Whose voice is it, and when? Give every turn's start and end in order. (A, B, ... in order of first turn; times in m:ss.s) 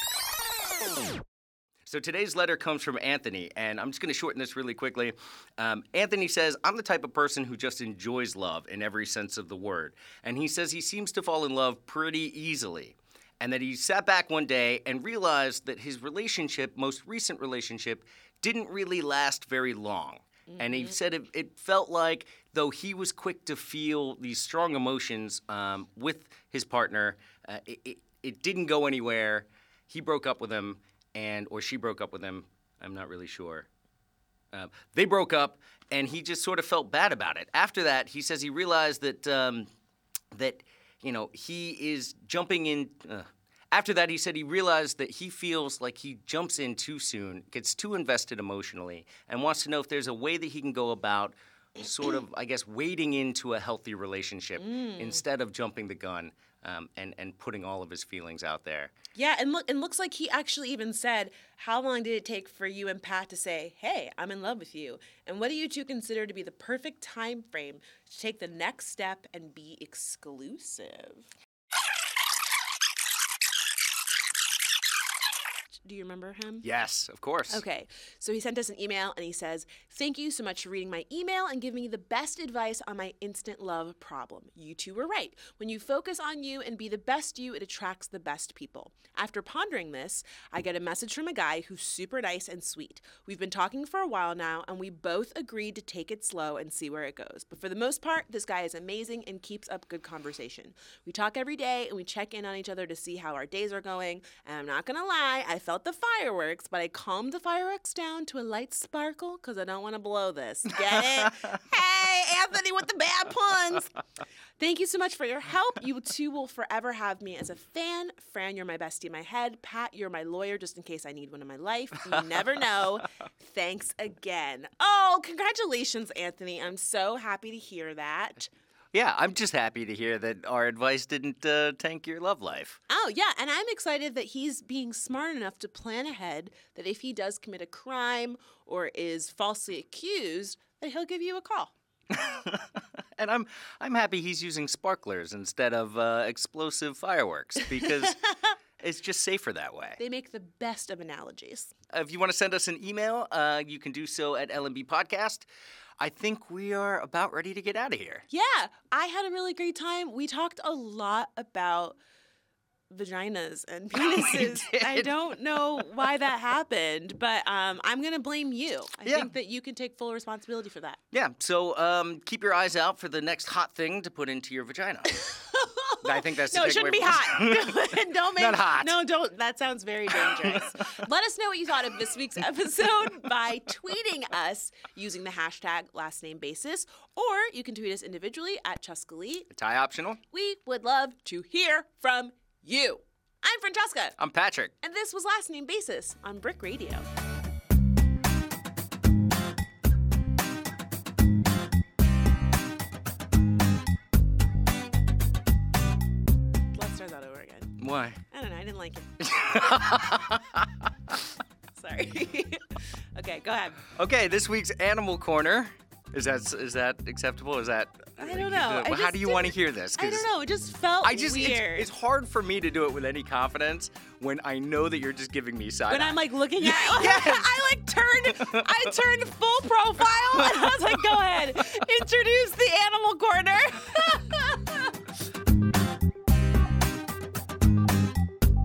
0:01.8-0:33.7 A
0:20.5-0:21.0 B
0:34.5-0:39.7 A
0:40.3-0:58.9 A
0:54.6-0:55.2 B
0:59.2-1:11.3 B
1:15.8-1:16.7 B
1:16.6-1:17.6 A
1:17.5-1:54.0 B
1:50.9-1:51.3 A
1:54.6-2:08.5 B
2:02.1-2:02.7 A
2:08.9-2:12.8 A
2:12.9-2:21.7 B
2:22.1-2:28.2 A
2:27.8-2:28.5 B
2:28.8-2:30.0 A
2:30.0-2:31.7 B
2:31.9-2:35.5 A
2:36.0-2:38.2 A
2:38.3-2:42.0 B
2:42.9-2:51.0 B
2:44.0-2:45.2 A
2:49.0-2:49.3 A
2:51.1-2:55.2 A
2:55.1-3:09.5 B
2:56.0-2:57.8 A
2:58.4-2:59.0 A
3:00.1-3:00.7 A
3:09.5-3:10.2 A
3:10.3-3:14.2 B
3:14.2-3:14.7 A
3:14.8-3:17.1 B
3:26.7-3:27.8 B
3:27.8-3:28.2 A
3:28.3-3:29.1 B
3:29.2-3:31.2 A
3:31.7-3:33.9 B
3:33.9-3:40.3 A
3:38.2-3:41.9 B
3:41.0-3:47.5 A
3:45.9-3:55.0 B
3:48.3-3:49.0 A
3:50.3-3:51.2 A